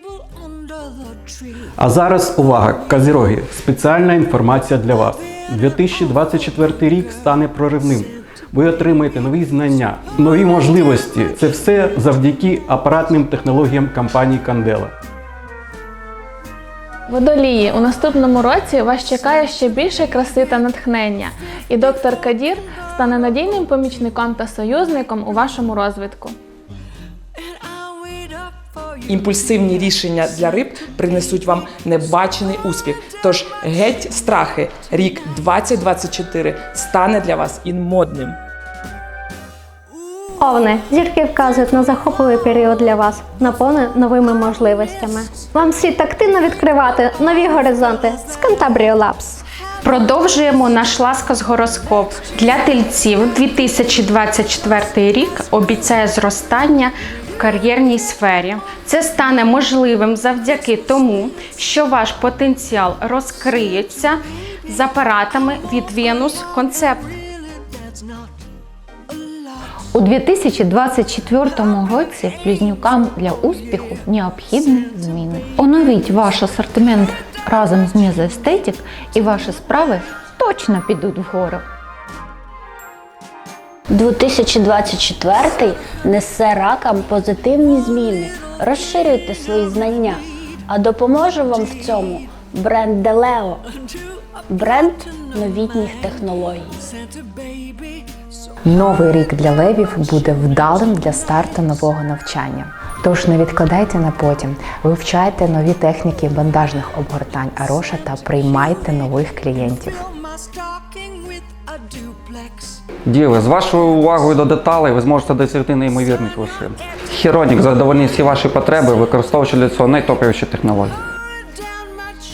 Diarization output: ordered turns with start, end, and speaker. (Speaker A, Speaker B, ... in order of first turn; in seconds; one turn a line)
Speaker A: 1.8-14.9
Speaker B: 17.1-26.4
Speaker C: 29.1-38.4
Speaker D: 40.4-49.4
Speaker E: 49.8-67.1
Speaker F: 69.9-81.6
Speaker G: 83.9-93.7
Speaker G: 94.5-96.8
Speaker H: 98.7-110.0
Speaker I: 113.1-120.9